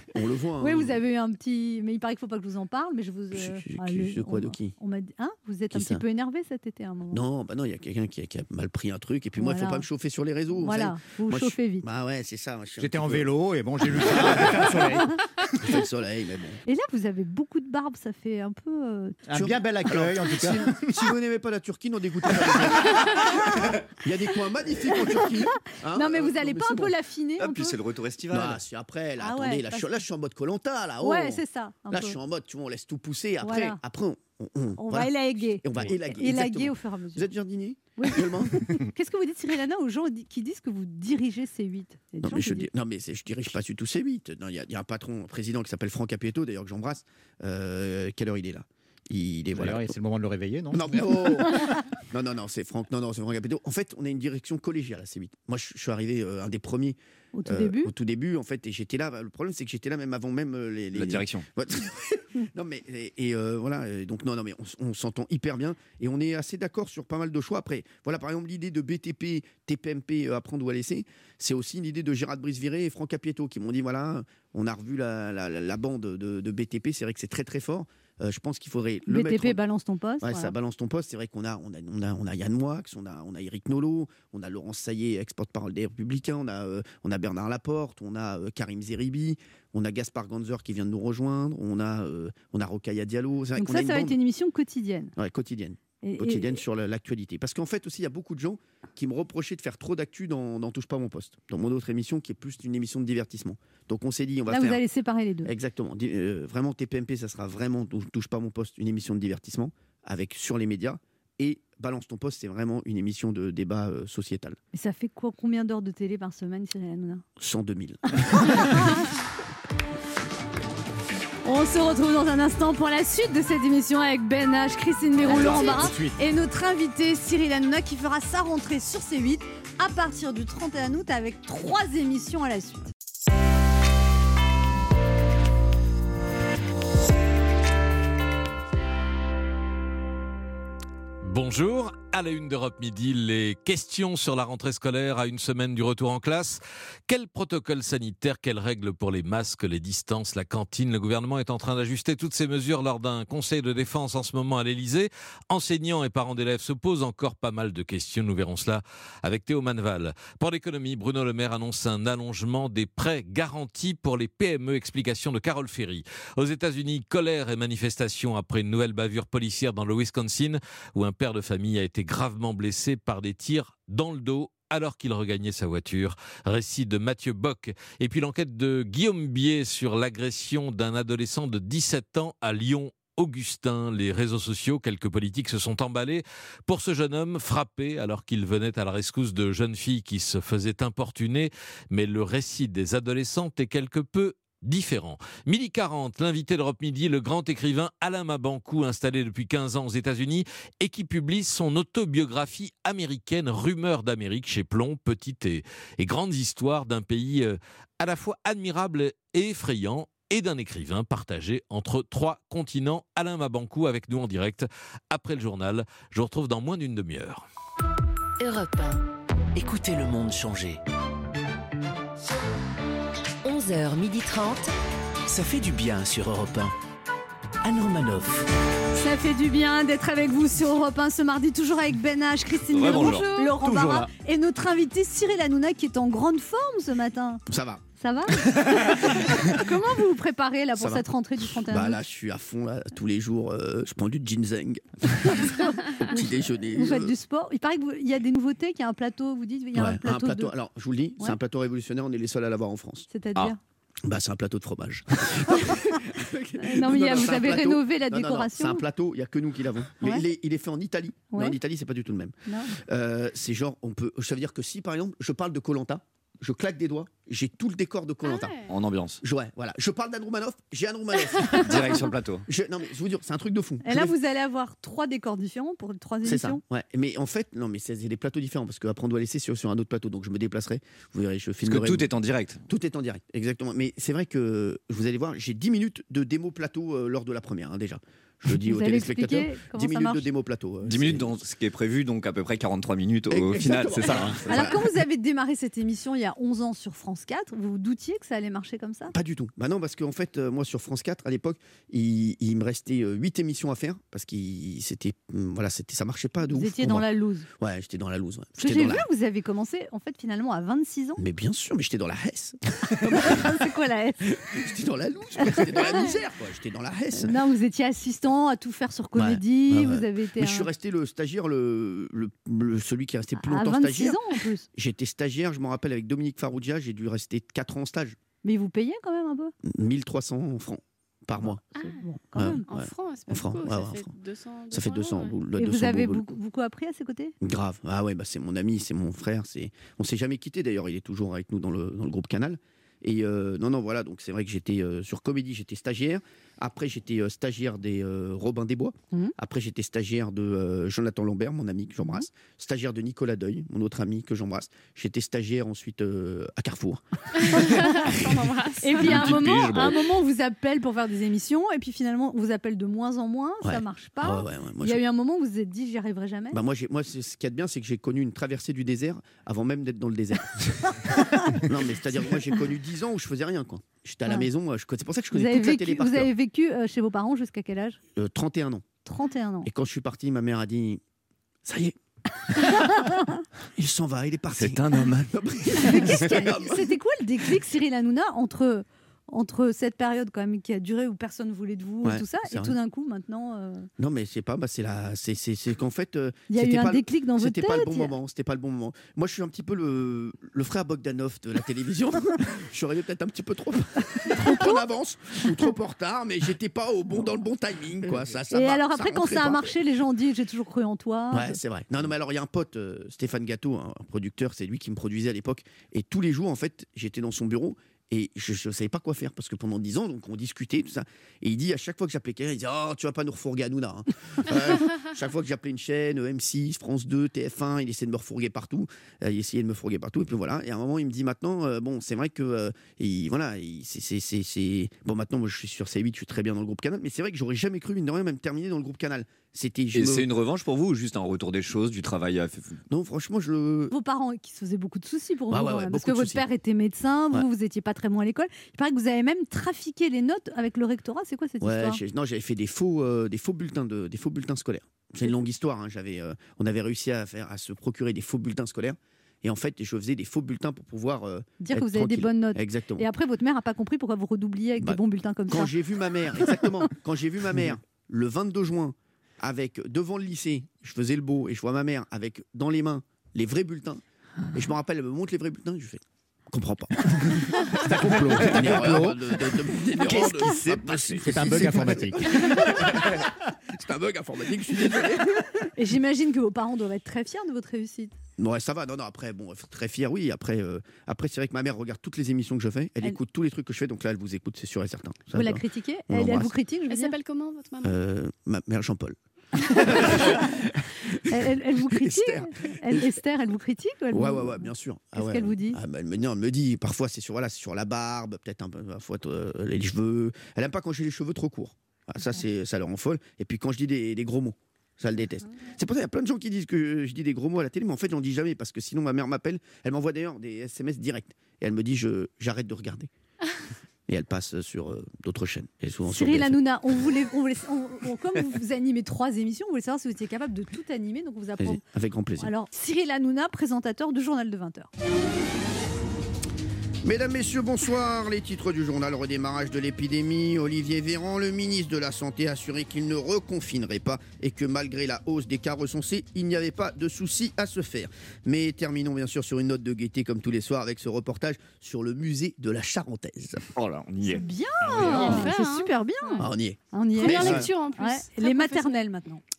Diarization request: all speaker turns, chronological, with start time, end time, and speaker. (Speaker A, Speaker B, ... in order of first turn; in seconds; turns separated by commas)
Speaker A: 0.1-1.0, Speaker B: 0.6-7.2, Speaker A: 3.3-4.7, Speaker A: 5.7-6.0, Speaker A: 7.1-13.3, Speaker B: 9.4-9.9, Speaker B: 10.5-11.9, Speaker C: 12.8-15.1, Speaker A: 14.0-14.7, Speaker A: 15.6-16.6, Speaker B: 16.7-19.2, Speaker C: 19.3-21.1, Speaker A: 19.3-26.9, Speaker B: 25.1-27.8, Speaker D: 27.4-28.6, Speaker A: 28.3-38.8, Speaker B: 29.2-29.9, Speaker B: 31.0-32.2, Speaker B: 33.4-33.8, Speaker B: 34.8-37.3, Speaker B: 38.0-42.7, Speaker A: 42.2-49.9, Speaker C: 49.5-51.4, Speaker A: 50.7-79.6, Speaker B: 57.3-57.9, Speaker D: 60.9-61.4, Speaker B: 79.1-80.5, Speaker A: 80.2-94.2, Speaker B: 93.6-95.1, Speaker A: 95.2-104.8, Speaker B: 96.0-96.6, Speaker B: 104.5-105.5, Speaker A: 105.5-114.6, Speaker B: 114.7-117.2, Speaker A: 117.4-118.8, Speaker B: 118.3-118.9, Speaker B: 121.4-132.9, Speaker C: 125.3-126.2, Speaker E: 141.2-217.4, Speaker F: 218.4-219.0, Speaker G: 219.6-220.8, Speaker F: 223.4-224.7, Speaker G: 225.3-226.7, Speaker G: 227.6-228.5, Speaker B: 228.9-237.4, Speaker D: 232.7-233.3, Speaker H: 232.9-233.5, Speaker C: 233.6-234.1, Speaker A: 237.5-237.8, Speaker B: 238.0-242.0, Speaker A: 240.8-241.1, Speaker A: 241.7-247.2, Speaker B: 245.2-250.6, Speaker A: 249.8-253.1, Speaker B: 253.1-253.6, Speaker A: 254.1-268.6, Speaker B: 256.6-258.8, Speaker B: 261.3-261.6, Speaker B: 262.5-262.8, Speaker H: 268.2-268.7, Speaker D: 268.7-269.2, Speaker A: 269.2-274.1, Speaker D: 271.6-272.5, Speaker B: 273.8-276.6, Speaker A: 276.2-282.1, Speaker D: 281.6-282.6, Speaker A: 282.7-291.4, Speaker B: 288.5-290.3, Speaker D: 290.9-294.8, Speaker A: 293.3-294.8, Speaker B: 294.5-299.1, Speaker A: 299.1-307.1, Speaker B: 306.5-307.5, Speaker A: 307.6-309.1, Speaker B: 308.6-311.2, Speaker A: 311.2-313.6, Speaker B: 313.1-314.3, Speaker A: 314.2-317.4, Speaker B: 315.4-316.1, Speaker B: 317.1-320.7, Speaker A: 319.1-324.2, Speaker B: 323.4-324.7, Speaker A: 324.8-328.2, Speaker B: 328.4-329.5, Speaker A: 329.6-331.6, Speaker B: 331.5-332.7, Speaker H: 331.8-332.0, Speaker A: 332.4-334.1, Speaker H: 332.7-335.4, Speaker A: 334.7-336.3, Speaker B: 335.6-337.3, Speaker A: 337.4-357.9, Speaker H: 357.5-359.3, Speaker B: 357.6-358.0, Speaker B: 358.8-366.6, Speaker D: 359.0-360.0, Speaker A: 363.6-365.0, Speaker A: 366.5-376.3, Speaker B: 371.2-371.6, Speaker B: 375.3-378.0, Speaker A: 378.2-378.9, Speaker B: 379.1-379.7, Speaker A: 379.6-381.0, Speaker A: 381.6-382.0, Speaker A: 382.6-382.9, Speaker A: 383.8-386.9, Speaker D: 384.6-385.3, Speaker B: 385.7-393.9, Speaker A: 392.0-392.8, Speaker A: 394.0-409.7, Speaker B: 396.5-398.1, Speaker B: 404.4-404.8, Speaker B: 408.5-411.6, Speaker A: 411.3-440.3, Speaker D: 439.9-442.8, Speaker A: 442.9-443.9, Speaker B: 443.9-452.0, Speaker A: 445.5-446.4, Speaker A: 451.6-463.1, Speaker B: 461.6-465.7, Speaker A: 464.8-474.0, Speaker A: 474.5-477.5, Speaker C: 477.8-479.4, Speaker A: 478.2-485.4, Speaker D: 480.0-481.2, Speaker C: 481.2-482.3, Speaker B: 485.8-488.1, Speaker A: 488.4-496.5, Speaker B: 495.3-497.1, Speaker H: 496.9-498.0, Speaker A: 497.8-500.7, Speaker B: 501.3-505.8, Speaker A: 501.9-503.1, Speaker A: 504.1-523.1, Speaker A: 524.1-526.6, Speaker B: 526.1-531.8, Speaker A: 531.6-532.5, Speaker B: 532.4-534.9, Speaker A: 537.0-553.6, Speaker D: 553.8-554.5, Speaker B: 554.2-559.4, Speaker H: 554.8-556.5, Speaker A: 556.4-557.7, Speaker H: 557.2-559.0